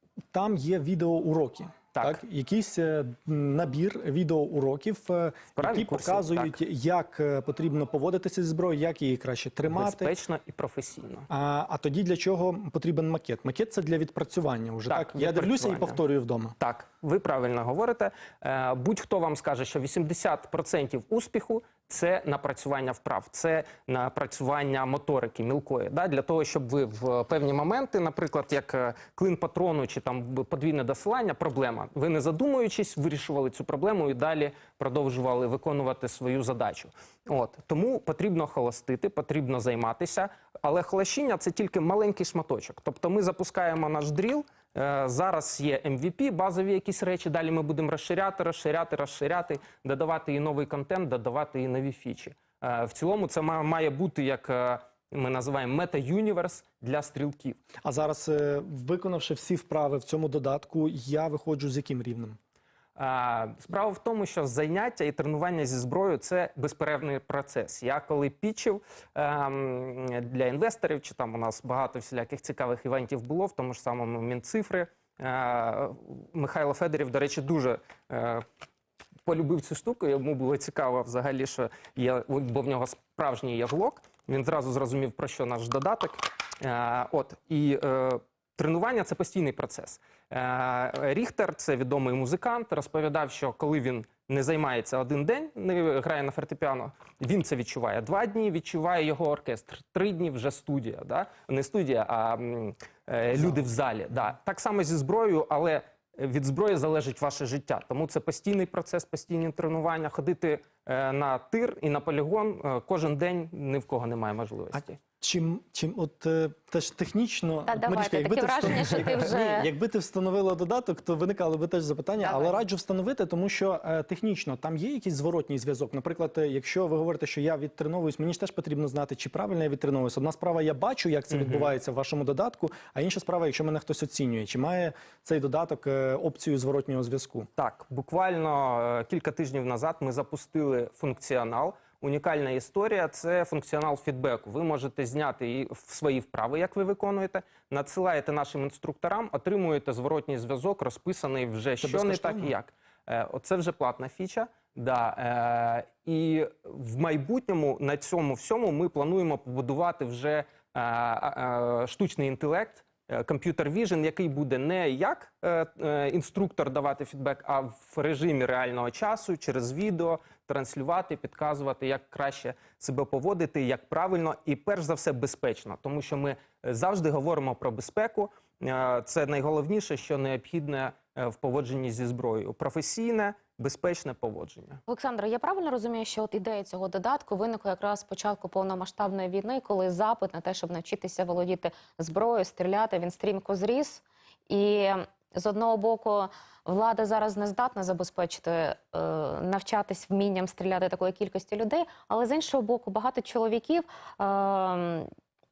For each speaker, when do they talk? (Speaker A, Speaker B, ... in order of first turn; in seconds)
Speaker A: 0.3-10.1, 11.3-16.6, 57.9-62.4, 114.7-137.5, 151.8-152.5
Speaker B: 1.9-2.2, 5.6-6.6, 9.7-11.3, 14.9-16.0, 16.6-57.6, 63.0-78.5, 79.2-115.0, 131.3-131.8, 137.6-184.8
Speaker C: 117.7-119.7, 122.2-122.6, 184.9-205.1